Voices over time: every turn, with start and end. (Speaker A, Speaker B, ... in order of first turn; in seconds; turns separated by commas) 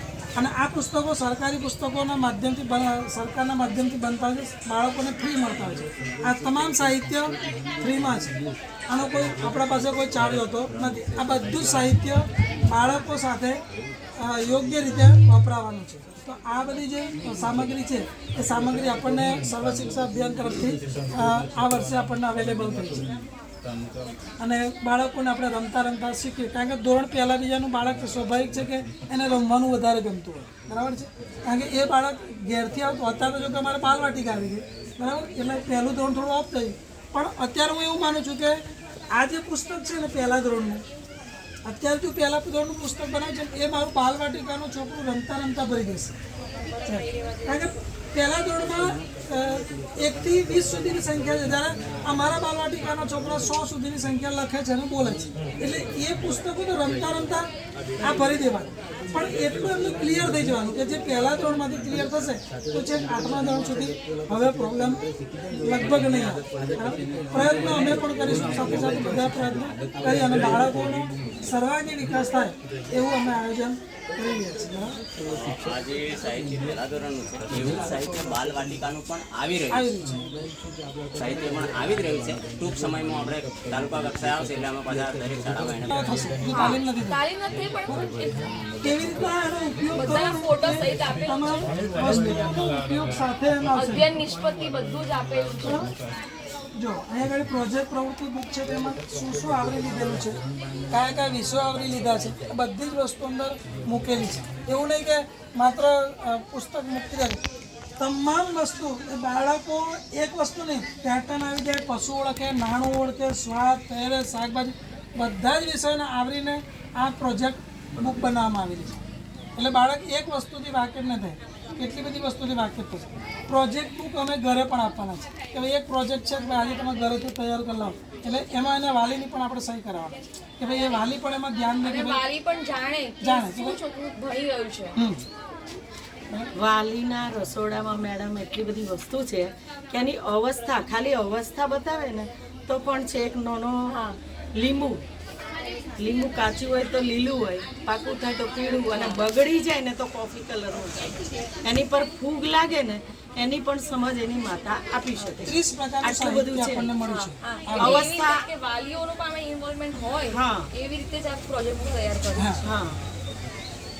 Speaker A: 0.3-8.4, Speaker A: 8.9-13.6, Speaker A: 14.2-23.1, Speaker A: 24.4-38.6, Speaker A: 39.1-40.8, Speaker A: 41.6-46.2, Speaker A: 46.9-65.0, Speaker A: 65.6-75.0, Speaker B: 75.3-79.8, Speaker A: 79.7-80.3, Speaker B: 81.1-86.0, Speaker A: 85.9-87.2, Speaker C: 86.5-88.6, Speaker A: 88.8-94.1, Speaker C: 89.9-91.7, Speaker C: 93.7-95.9, Speaker A: 96.8-107.4, Speaker A: 108.0-119.0, Speaker A: 119.5-132.2, Speaker C: 131.8-135.0, Speaker A: 133.2-133.8, Speaker A: 134.9-135.2, Speaker D: 136.5-143.8, Speaker C: 143.9-144.2, Speaker D: 144.5-145.0, Speaker D: 145.9-156.9, Speaker C: 148.9-149.2, Speaker C: 155.2-155.4, Speaker A: 155.4-158.1, Speaker C: 157.0-162.7, Speaker D: 157.7-158.4, Speaker D: 160.3-160.7, Speaker A: 162.3-162.6, Speaker D: 162.6-163.0